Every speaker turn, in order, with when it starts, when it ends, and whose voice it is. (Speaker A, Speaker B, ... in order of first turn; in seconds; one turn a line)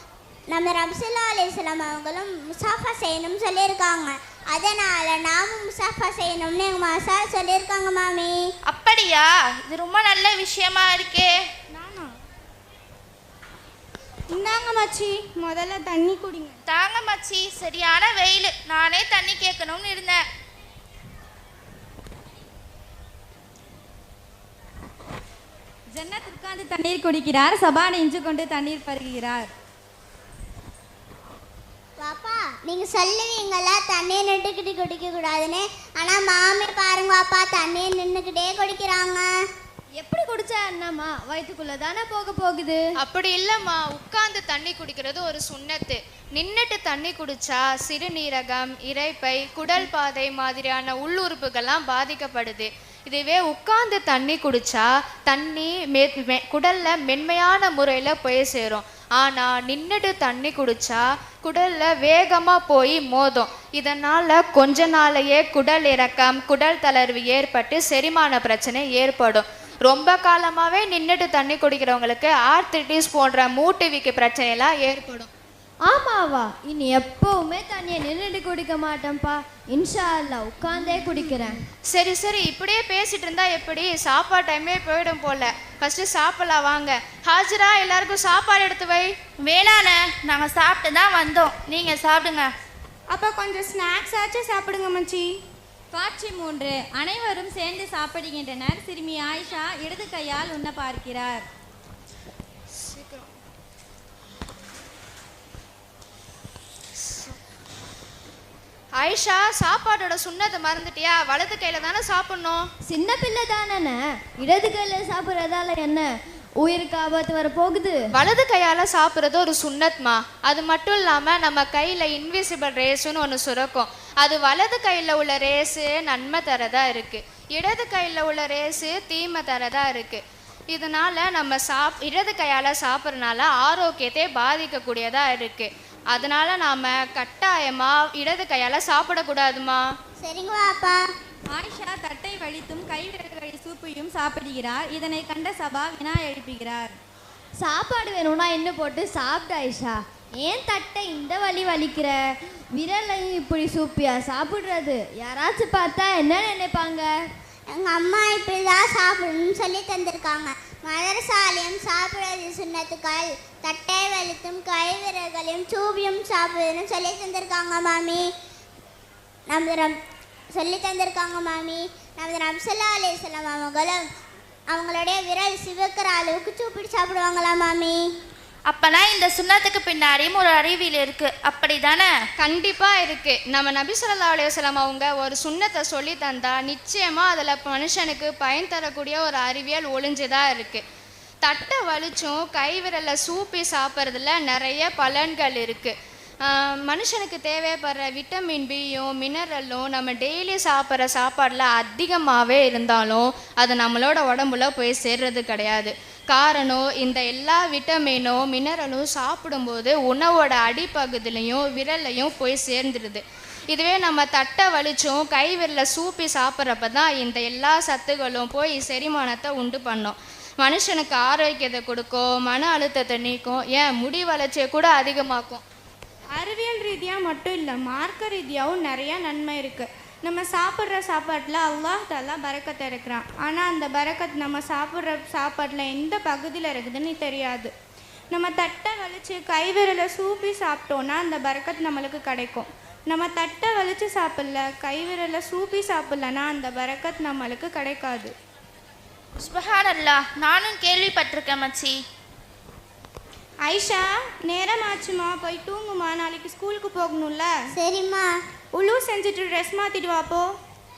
Speaker A: 0.5-8.4
Speaker B: 8.7-11.5
Speaker C: 11.7-12.1
Speaker C: 14.3-16.6
Speaker B: 16.7-20.2
Speaker D: 25.9-29.5
Speaker A: 32.0-39.3
Speaker E: 40.0-42.8
Speaker F: 43.0-75.3
Speaker E: 75.8-81.6
Speaker F: 81.9-89.1
Speaker B: 89.4-92.5
Speaker C: 93.1-95.2
Speaker D: 95.9-101.4
Speaker F: 102.9-103.2
Speaker F: 109.0-112.7
Speaker E: 112.9-116.1
Speaker E: 116.6-118.0
Speaker F: 118.1-139.9
Speaker A: 140.2-141.0
Speaker D: 141.5-146.9
Speaker E: 147.6-152.2
Speaker E: 152.8-157.1
Speaker A: 157.7-168.3
Speaker A: 169.5-169.9
Speaker A: 170.5-174.0
Speaker A: 174.7-178.0
Speaker B: 178.7-182.1
Speaker F: 182.4-190.8
Speaker F: 191.4-225.6
Speaker C: 226.4-237.7
Speaker C: 238.3-248.3
Speaker B: 249.4-252.0
Speaker C: 253.7-257.5
Speaker A: 257.7-258.3
Speaker C: 258.7-260.5